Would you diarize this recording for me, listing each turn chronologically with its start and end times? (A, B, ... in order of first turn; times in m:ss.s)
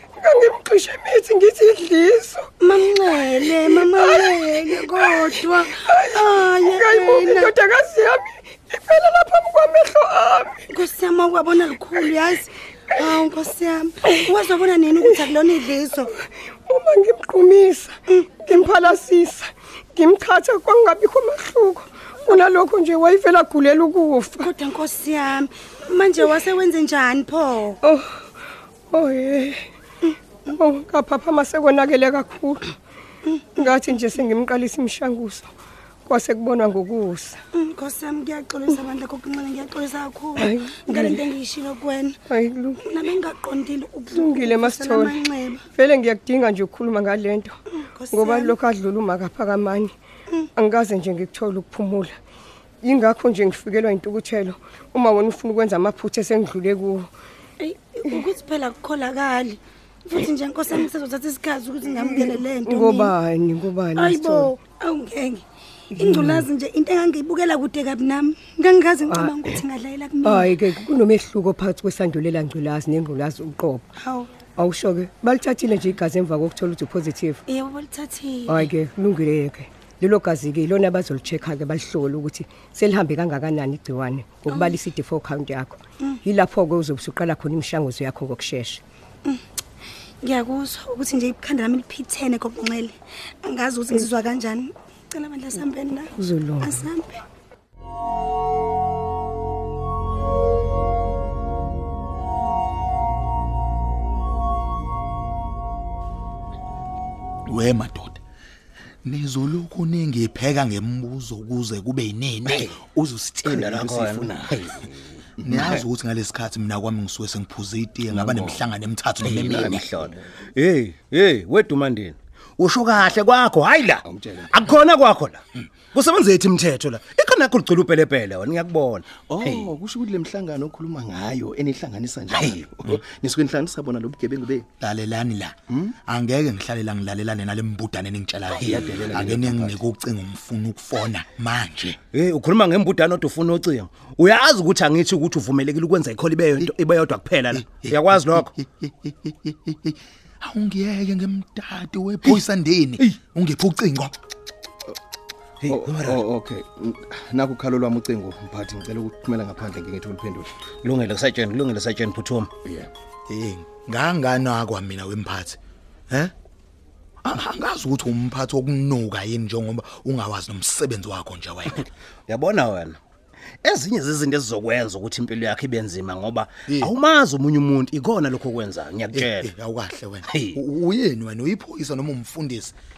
0:00.2-0:02.5 A
0:02.6-0:07.5 B
0:03.6-0:10.6 A
0:10.7-0:16.1 B
0:16.7-0:24.5 A
0:24.4-0:27.8 B
0:27.8-0:28.1 A
0:28.9-0:29.6 A
0:30.5-0:32.6 A
0:33.2-0:33.6 B
0:33.6-0:35.5 A
0:36.0-0:37.4 A
0:37.5-0:42.2 B
0:40.4-0:41.2 A
0:42.3-0:42.8 A
0:42.8-0:45.6 B
0:44.1-0:45.2 A
0:45.7-0:47.6 A
0:47.8-0:48.5 B
0:48.1-0:49.9 A
0:50.6-0:52.2 A
0:52.8-0:57.1 A
0:57.6-1:03.1 B
1:02.1-1:04.5 A
1:04.0-1:10.5 B
1:06.0-1:06.4 A
1:09.1-1:09.6 A
1:10.2-1:13.9 A
1:14.0-1:14.3 B
1:14.6-1:17.4 A
1:17.5-1:18.7 B
1:18.5-1:28.8 A
1:24.5-1:24.8 B
1:30.2-1:37.2 B
1:36.2-1:36.8 A
1:47.5-1:48.2 C
1:49.0-1:54.7 C
1:52.5-1:52.8 D
1:53.4-1:55.8 D
1:55.4-1:59.9 C
1:58.1-1:58.7 D
1:59.2-2:09.7 D
2:04.1-2:04.6 E
2:09.4-2:14.7 E
2:12.3-2:13.0 D
2:14.8-2:15.5 C
2:16.1-2:22.0 C
2:18.5-2:19.8 D
2:18.7-2:19.1 E
2:22.1-2:28.5 D
2:27.5-2:34.1 C
2:35.6-2:36.2 D
2:35.7-2:40.5 E
2:40.8-2:42.5 D
2:43.3-2:45.6 C
2:47.2-2:51.9 C
2:52.3-2:53.0 D
2:53.6-2:59.5 D
2:59.1-3:02.7 C
3:00.3-3:00.6 D